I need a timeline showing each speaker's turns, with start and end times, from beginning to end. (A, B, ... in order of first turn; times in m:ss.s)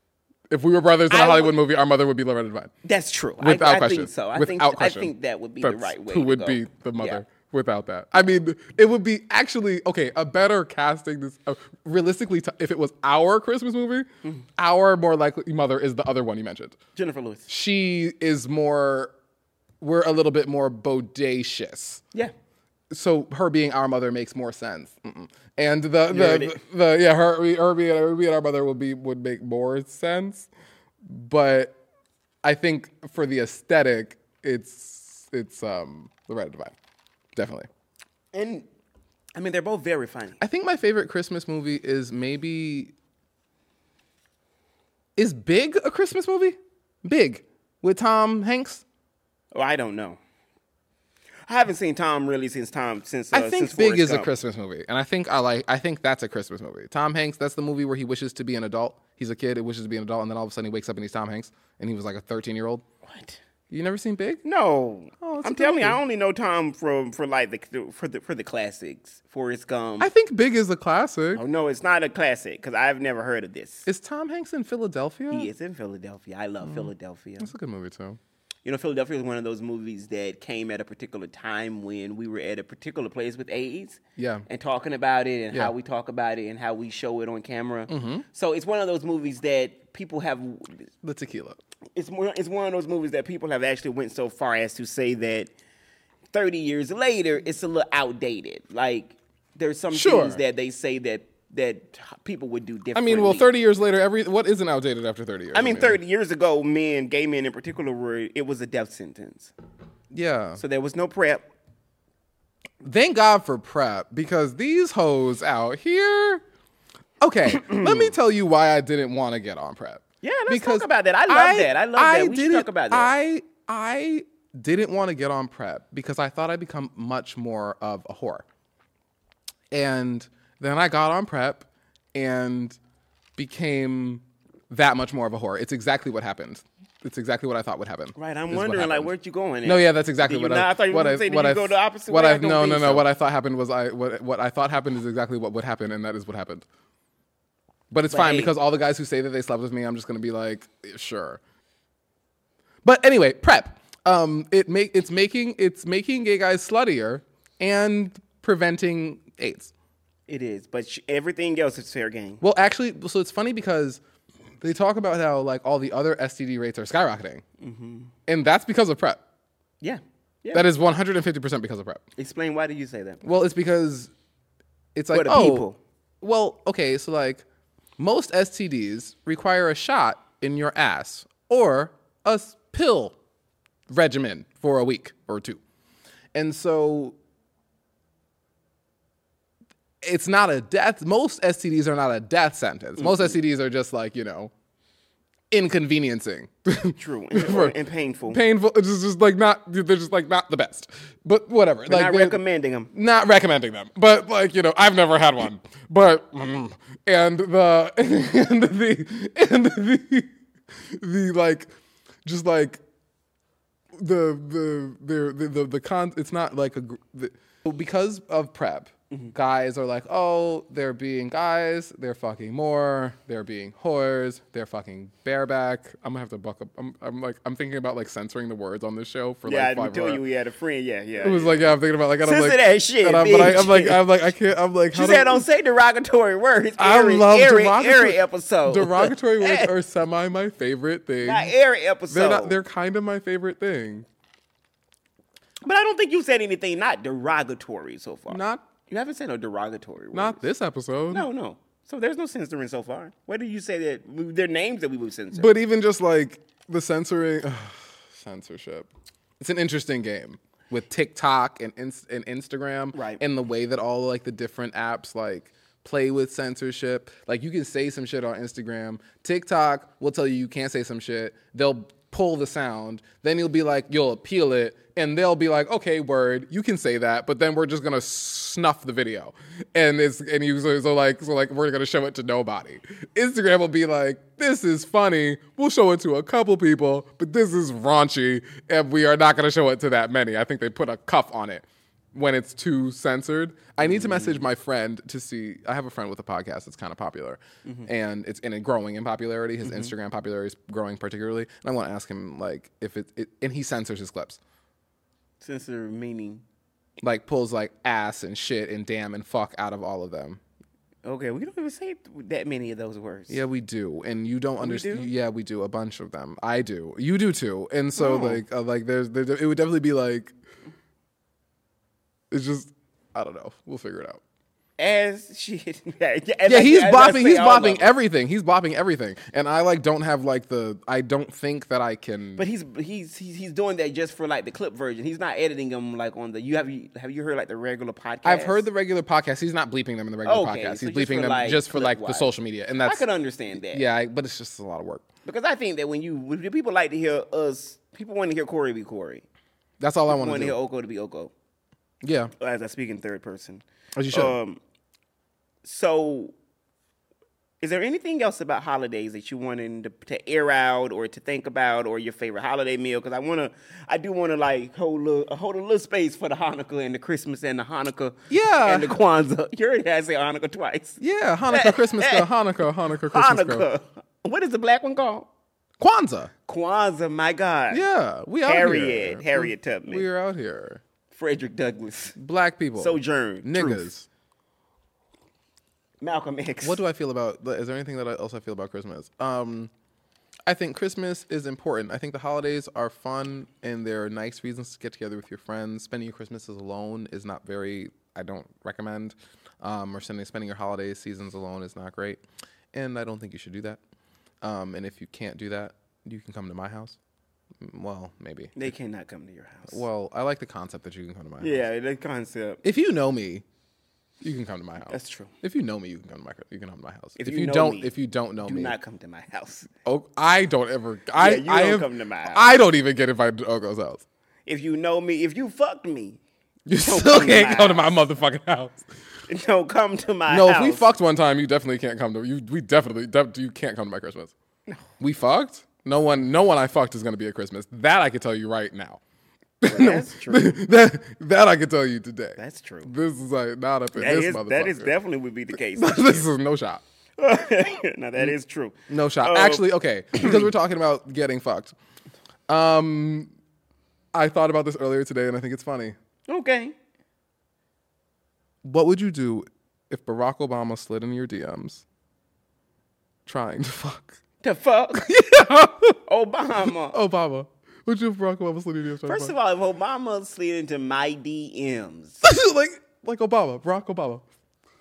0:00.5-0:02.7 A
0:01.1-0:01.5 B
0:02.8-0:07.2 B
0:03.4-0:16.8 A
0:17.0-0:17.4 B
0:17.5-0:19.1 A
0:19.8-0:22.0 A
0:22.9-0:30.5 A
0:26.1-0:26.6 B
0:31.0-0:31.8 A
0:32.4-0:36.7 A
0:37.4-0:37.7 A
0:38.3-0:38.7 B
0:39.3-0:40.4 B
0:40.4-0:42.9 A
0:45.2-0:48.8 A
0:49.5-0:50.2 B
0:51.5-0:54.3 B
0:53.3-1:02.8 A
1:03.0-1:03.4 B
1:03.7-1:04.4 A
1:04.4-1:10.1 B
1:05.2-1:06.0 A
1:10.0-1:11.4 A
1:11.3-1:13.9 B
1:13.8-1:15.5 A
1:15.3-1:17.5 B
1:16.6-1:18.2 A
1:18.6-1:30.8 B
1:24.2-1:24.4 A
1:27.9-1:28.2 A
1:31.0-1:31.6 A
1:32.0-1:35.5 B
1:36.3-1:43.5 B
1:39.9-1:40.4 A
1:42.9-1:46.0 A
1:45.5-1:49.5 B
1:50.1-1:50.6 A
1:50.6-1:51.4 B
1:52.8-1:56.4 A
1:57.2-2:08.4 A
1:57.6-1:58.1 B
2:00.2-2:03.1 B
2:09.7-2:12.8 A
2:13.4-2:19.1 A
2:18.2-2:23.1 B
2:19.6-2:26.6 A
2:27.9-2:31.4 A
2:28.1-2:28.5 B
2:32.8-2:39.7 A
2:40.3-2:42.4 B
2:42.4-2:44.0 A
2:44.6-2:47.4 A
2:47.6-2:48.1 B
2:48.3-2:49.2 A
2:49.8-2:50.7 B
2:50.5-2:52.0 A
2:52.2-2:53.2 B
2:53.2-2:54.1 A
2:54.9-2:55.7 A
2:55.1-2:55.8 B
2:56.2-2:57.4 A
2:58.0-3:03.2 A
3:03.9-3:05.6 A
3:06.3-3:07.2 A
3:10.0-3:14.5 A
3:13.0-3:13.4 B
3:15.5-3:17.8 A
3:17.0-3:18.4 B
3:18.3-3:22.4 A
3:21.9-3:22.9 B
3:22.9-3:30.3 A
3:30.9-3:31.7 A
3:32.2-3:32.8 A
3:34.0-3:50.2 A
3:49.4-3:51.7 B
3:51.2-3:55.5 A
3:52.2-3:54.0 B
3:54.9-3:59.7 B
3:56.8-4:01.5 A
4:01.2-4:02.6 B
4:02.1-4:04.1 A
4:05.6-4:10.4 B
4:08.3-4:08.6 A
4:10.1-4:11.2 A
4:11.1-4:15.5 B
4:15.3-4:18.9 A
4:19.4-5:04.4 A
4:22.9-4:23.2 B
4:53.8-4:54.4 B
4:59.6-4:59.9 B
5:05.4-5:06.4 B
5:07.0-5:10.4 A
5:11.0-5:13.4 B
5:13.3-5:20.3 A
5:14.6-5:15.1 B
5:18.0-5:18.4 B
5:22.3-5:24.2 A
5:24.8-5:27.9 B
5:26.4-5:32.4 A
5:32.4-5:38.6 B
5:38.2-5:43.0 A
5:40.2-5:42.3 B
5:42.8-5:43.8 B
5:43.7-5:45.0 A
5:45.2-5:49.2 B
5:49.8-5:50.6 A
5:50.1-5:51.3 B
5:52.0-5:52.3 A
5:52.4-5:54.6 B
5:54.0-5:54.4 A
5:55.6-5:56.3 B
5:57.6-6:12.3 B
6:08.3-6:08.9 A
6:11.0-6:13.7 A
6:13.1-6:15.3 B
6:15.8-6:16.3 A
6:16.5-6:17.8 B
6:17.7-6:20.8 A
6:18.4-6:20.0 B
6:21.1-6:22.2 B
6:22.2-6:24.0 A
6:22.8-6:23.8 B
6:26.0-6:26.8 B
6:26.6-6:29.7 A
6:30.4-6:42.2 A
6:42.7-6:43.8 A
6:44.4-6:47.0 A
6:47.6-6:48.7 A
6:48.6-6:49.8 B
6:49.7-6:51.6 A
6:51.4-6:52.6 B
6:52.6-6:53.4 A
6:54.2-6:58.7 A
6:54.9-6:55.3 B
6:57.2-6:59.7 B
6:59.8-7:04.0 A
7:01.2-7:02.5 B
7:04.4-7:06.2 B
7:06.7-7:08.8 A
7:06.8-7:08.0 B
7:09.3-7:10.9 B
7:10.3-7:14.3 A
7:15.0-7:19.0 A
7:19.6-7:24.9 A
7:19.6-7:20.6 B
7:22.4-7:22.9 B
7:23.9-7:26.2 B
7:25.5-7:26.8 A
7:27.2-7:29.6 B
7:28.9-7:31.7 A
7:30.2-7:30.4 B
7:32.5-7:33.3 A
7:34.1-7:36.0 A
7:36.3-7:36.7 B
7:38.6-7:41.8 A
7:43.2-7:44.2 A
7:44.4-7:45.1 B
7:45.0-7:46.0 A
7:46.0-7:47.0 B
7:46.6-7:49.3 A
7:49.0-7:52.2 B
7:52.2-7:54.2 A